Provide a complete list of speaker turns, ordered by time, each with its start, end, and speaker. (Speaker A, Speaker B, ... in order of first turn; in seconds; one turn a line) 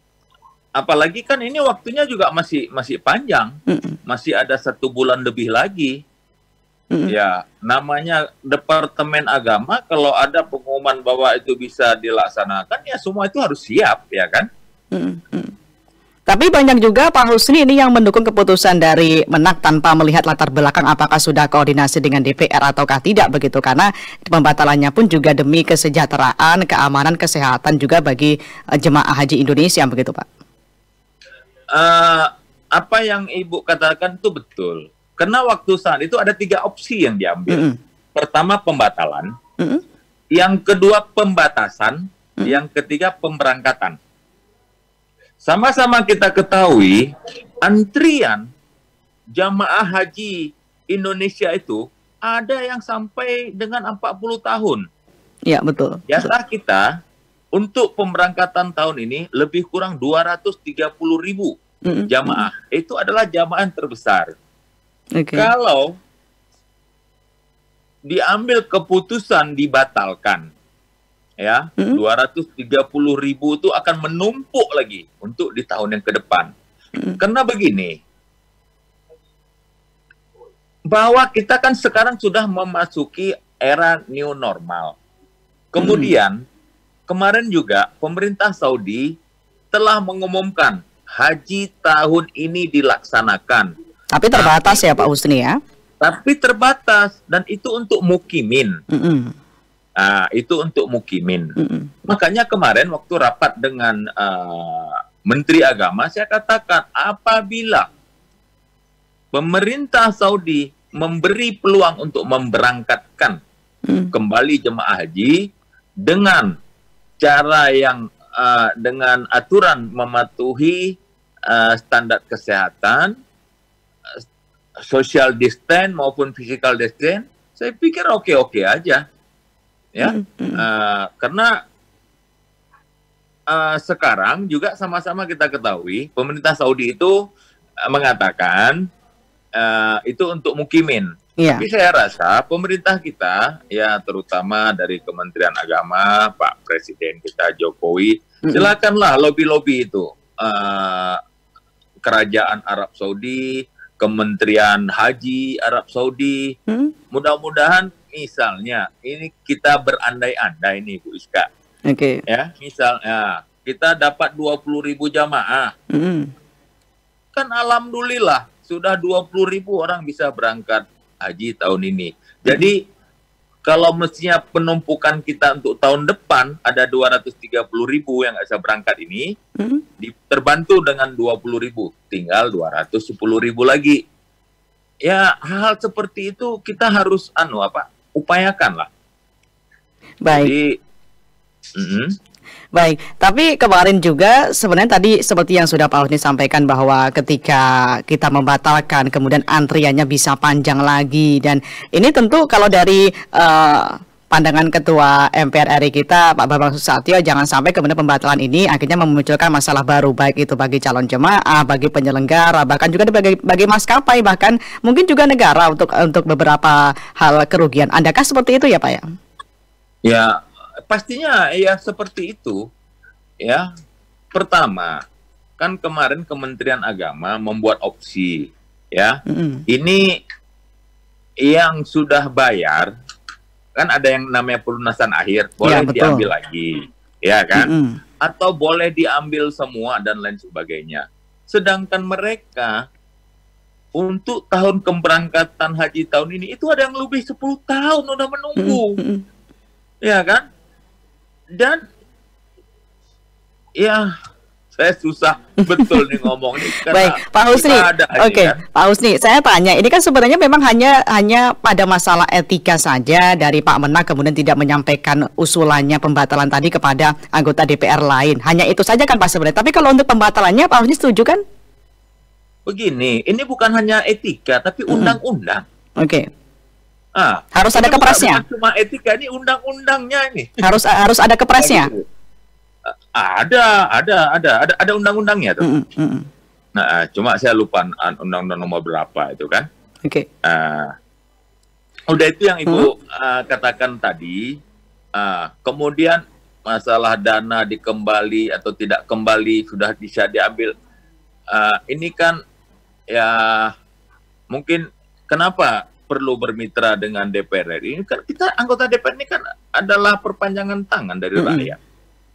Speaker A: 0.8-3.6
Speaker B: 3.7-4.0
Speaker A: 4.1-6.0
Speaker A: 7.1-14.5
Speaker B: 14.9-15.5
Speaker B: 16.3-30.3
Speaker A: 31.7-39.3
Speaker B: 37.5-37.8
Speaker A: 40.3-44.0
Speaker A: 45.4-47.0
Speaker A: 47.6-48.4
Speaker A: 49.4-54.8
Speaker B: 55.5-56.3
Speaker A: 56.1-56.9
Speaker A: 57.6-61.5
Speaker B: 61.9-62.5
Speaker A: 62.1-64.3
Speaker B: 65.2-65.5
Speaker A: 65.3-66.0
Speaker A: 68.1-70.5
Speaker A: 71.4-76.5
Speaker A: 77.2-78.0
Speaker A: 80.9-85.0
Speaker A: 85.7-86.4
Speaker B: 85.8-86.1
Speaker A: 87.1-89.1
Speaker A: 89.7-93.7
Speaker B: 94.1-95.5
Speaker A: 94.4-95.0
Speaker A: 96.0-98.8
Speaker B: 98.9-99.3
Speaker A: 100.0-101.5
Speaker B: 101.6-101.9
Speaker A: 102.1-107.9
Speaker A: 109.3-113.4
Speaker B: 113.9-114.1
Speaker A: 114.1-115.4
Speaker A: 116.0-116.6
Speaker A: 117.2-123.2
Speaker A: 124.8-129.0
Speaker A: 129.9-131.5
Speaker B: 130.0-130.6
Speaker A: 133.5-137.2
Speaker A: 137.9-138.8
Speaker A: 139.6-151.2
Speaker B: 148.5-148.7
Speaker A: 152.0-153.4
Speaker A: 154.0-156.5
Speaker B: 156.7-156.9
Speaker A: 157.1-161.5
Speaker B: 161.9-162.2
Speaker A: 162.3-165.7
Speaker B: 165.9-166.3
Speaker A: 167.3-172.8
Speaker A: 173.7-179.3
Speaker B: 179.6-179.8
Speaker A: 180.0-184.0
Speaker A: 185.1-188.9
Speaker B: 190.2-190.5
Speaker A: 190.3-190.8
Speaker A: 191.8-192.1
Speaker B: 192.8-219.1
Speaker A: 220.1-222.6
Speaker A: 224.3-225.0
Speaker A: 225.6-230.2
Speaker B: 229.3-229.6
Speaker A: 231.4-232.9
Speaker A: 233.8-237.7
Speaker B: 235.7-236.3
Speaker B: 237.6-238.0
Speaker A: 238.2-242.8
Speaker A: 244.0-249.0
Speaker B: 248.6-249.2
Speaker A: 250.0-250.5
Speaker A: 251.5-251.8
Speaker A: 253.8-254.1
Speaker A: 254.7-258.6
Speaker B: 255.8-271.4
Speaker A: 272.7-275.6
Speaker B: 274.9-275.2
Speaker B: 276.0-276.3
Speaker A: 277.2-280.5
Speaker B: 277.6-278.4
Speaker B: 280.6-281.9
Speaker A: 281.6-282.0
Speaker A: 282.9-285.7
Speaker B: 285.6-286.3
Speaker A: 286.8-289.7
Speaker A: 290.4-290.9
Speaker A: 292.1-294.4
Speaker A: 295.2-300.7
Speaker A: 301.5-302.4
Speaker A: 303.1-303.7
Speaker A: 304.5-311.8
Speaker B: 311.4-311.8